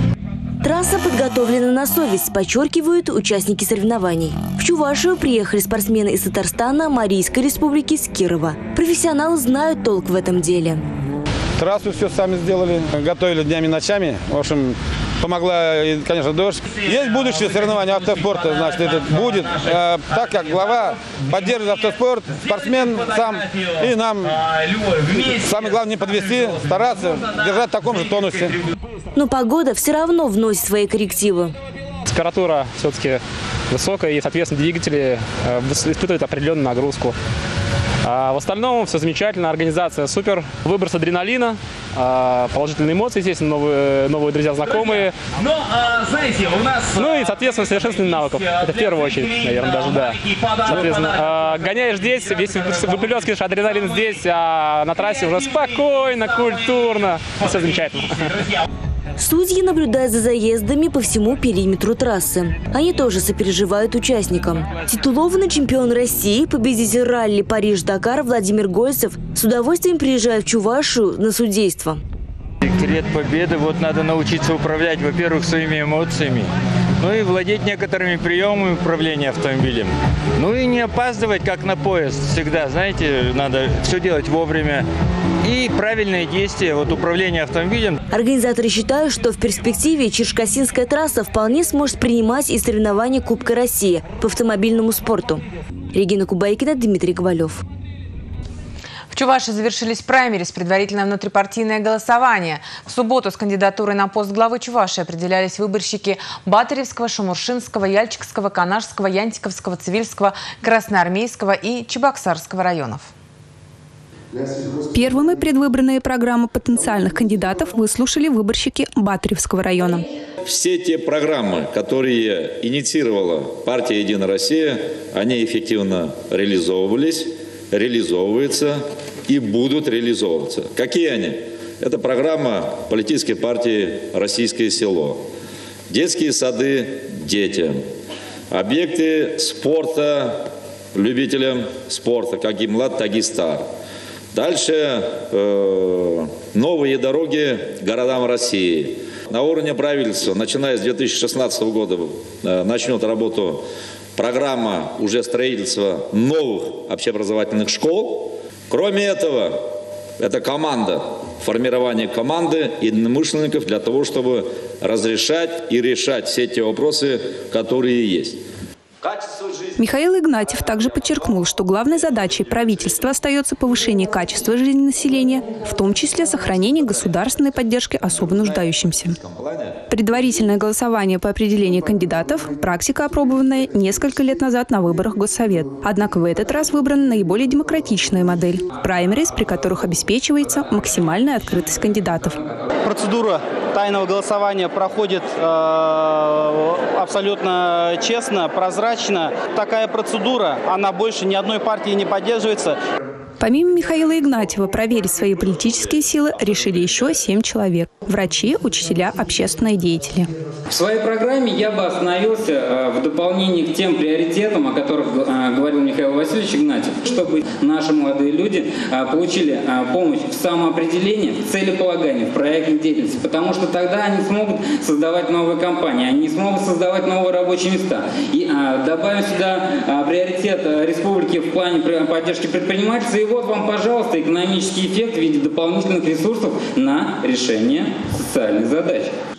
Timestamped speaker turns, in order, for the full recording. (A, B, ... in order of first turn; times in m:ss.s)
0:00.6-0:10.8 A
0:11.6-0:24.3 B
0:25.2-0:28.6 B
0:29.2-0:31.6 A
0:32.1-0:37.2 C
0:38.0-0:45.1 C
0:46.9-0:58.3 C
0:59.2-1:12.0 A
1:12.6-1:24.8 D
1:25.4-1:28.0 D
1:28.1-1:37.6 A
1:39.1-1:53.1 E
1:54.9-2:00.1 F
2:00.5-2:15.2 G
2:15.9-2:17.8 G
2:18.5-2:20.4 G
2:21.0-2:23.6 G
2:24.4-2:33.6 G
2:34.2-2:39.6 G
2:40.2-2:48.4 G
2:49.8-2:59.2 F
2:59.9-3:12.4 F
3:12.9-3:22.7 H
3:23.4-3:30.3 F
3:30.7-3:59.1 I